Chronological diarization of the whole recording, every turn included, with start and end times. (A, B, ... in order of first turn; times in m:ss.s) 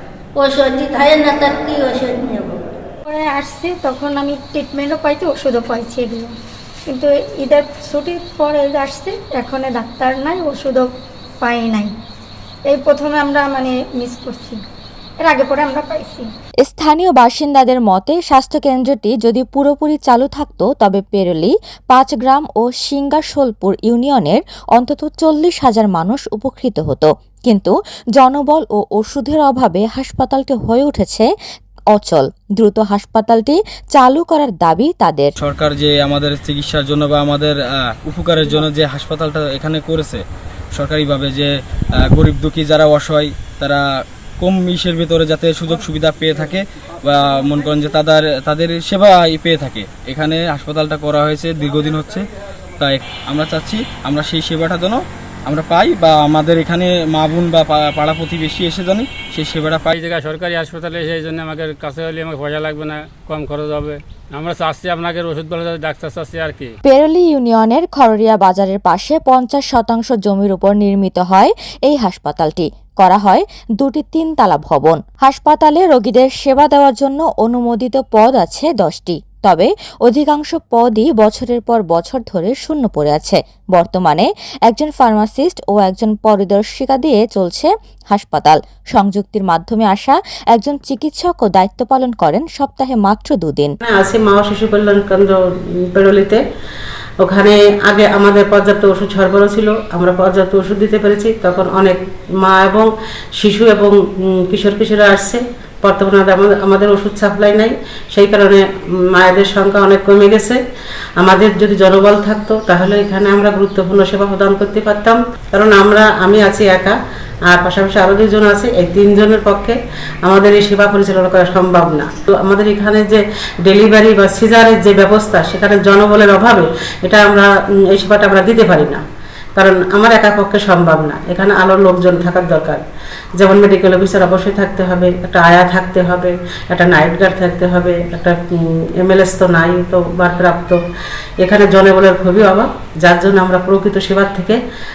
0:00.4-0:02.6 A
0:03.1-0:06.3 B
0:06.9-0:10.9 B
0:11.4-0:11.9 B
0:12.7-0:14.6 B
0:15.2-0:16.3 B
0:16.6-0:31.3 C
0:31.9-0:35.3 C
0:35.4-0:40.2 D
0:40.7-0:41.5 D
0:42.0-0:43.8 D
0:44.4-0:52.2 D
0:52.8-0:59.9 D
0:59.9-1:06.7 E
1:06.8-1:33.8 C
1:33.8-1:35.3 F
1:35.9-1:36.4 F
1:37.2-1:42.9 F
1:43.4-1:44.0 F
1:44.5-1:50.6 F
1:51.2-1:57.0 F
1:57.5-2:09.0 F
2:09.6-2:12.8 F
2:13.4-2:18.4 F
2:19.0-2:20.8 F
2:21.4-2:24.6 F